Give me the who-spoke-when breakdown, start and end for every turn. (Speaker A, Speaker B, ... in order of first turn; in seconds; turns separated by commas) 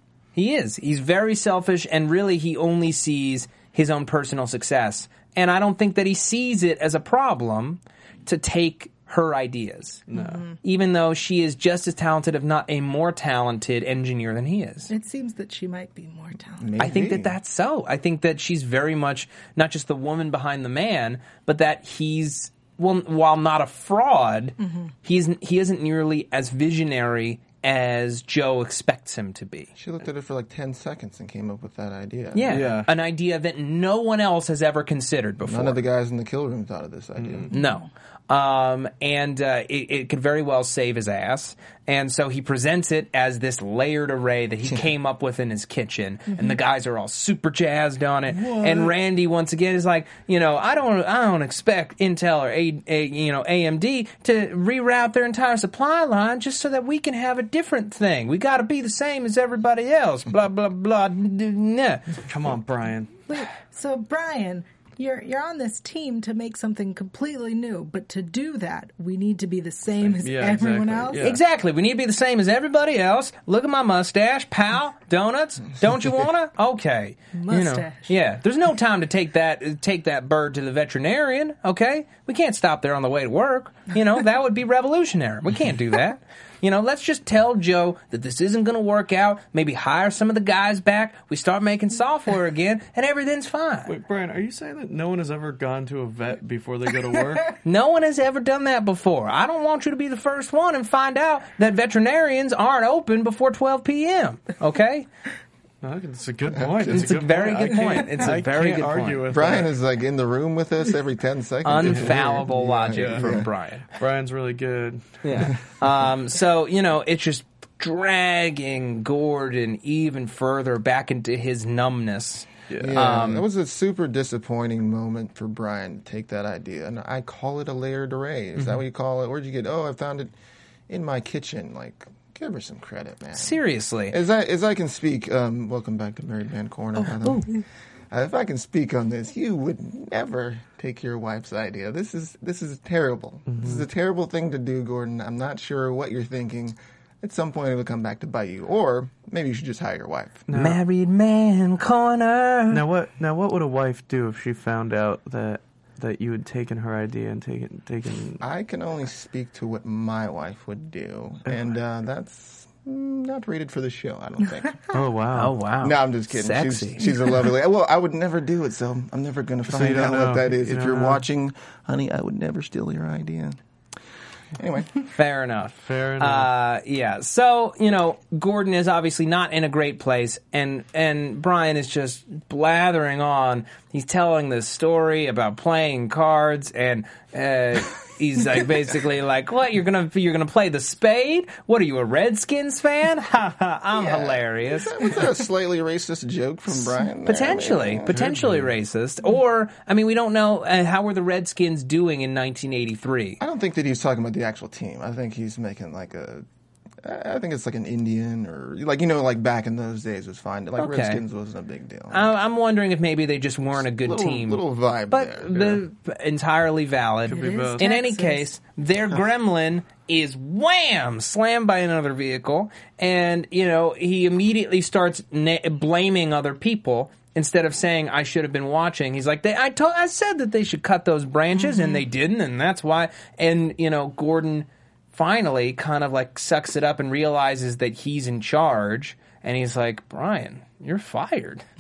Speaker A: 0.3-10.0, Speaker B: 10.1-10.4, Speaker C: 10.1-10.6, Speaker A: 10.6-14.9, Speaker C: 14.9-16.8, Speaker D: 16.6-17.4, Speaker A: 16.8-29.7, Speaker C: 24.6-24.9, Speaker D: 29.8-32.8, Speaker A: 32.3-35.8, Speaker B: 32.5-32.9, Speaker D: 35.4-37.5, Speaker B: 37.2-37.5, Speaker A: 37.5-62.2, Speaker C: 37.5-37.9, Speaker B: 48.3-48.9, Speaker B: 62.3-63.2, Speaker C: 63.3-71.3, Speaker B: 70.1-71.4, Speaker A: 71.2-93.9, Speaker C: 77.3-78.1, Speaker B: 93.9-97.6, Speaker A: 97.6-105.1, Speaker B: 105.8-109.7, Speaker D: 106.5-107.2, Speaker A: 106.9-109.2, Speaker D: 109.3-113.5, Speaker A: 111.7-113.9, Speaker B: 111.8-112.3, Speaker B: 112.9-113.3, Speaker B: 114.0-115.5, Speaker A: 115.2-123.5, Speaker B: 122.7-123.0, Speaker D: 122.8-130.3, Speaker D: 130.9-150.4, Speaker A: 133.4-134.2, Speaker A: 137.2-137.5, Speaker B: 143.5-143.8, Speaker B: 150.5-150.8, Speaker A: 150.5-152.8, Speaker B: 152.7-158.4, Speaker D: 158.4-164.9, Speaker B: 164.9-165.5, Speaker A: 165.3-167.2, Speaker D: 165.8-173.6, Speaker B: 169.7-171.2, Speaker D: 174.6-175.0, Speaker A: 175.2-195.0, Speaker B: 175.8-176.5, Speaker D: 193.9-198.3, Speaker A: 196.8-203.4, Speaker B: 198.1-198.7, Speaker D: 203.4-206.5, Speaker D: 207.0-212.4, Speaker A: 210.8-211.2, Speaker A: 212.1-241.6, Speaker D: 213.8-215.8, Speaker C: 217.3-218.5, Speaker B: 217.3-217.8, Speaker C: 231.6-232.0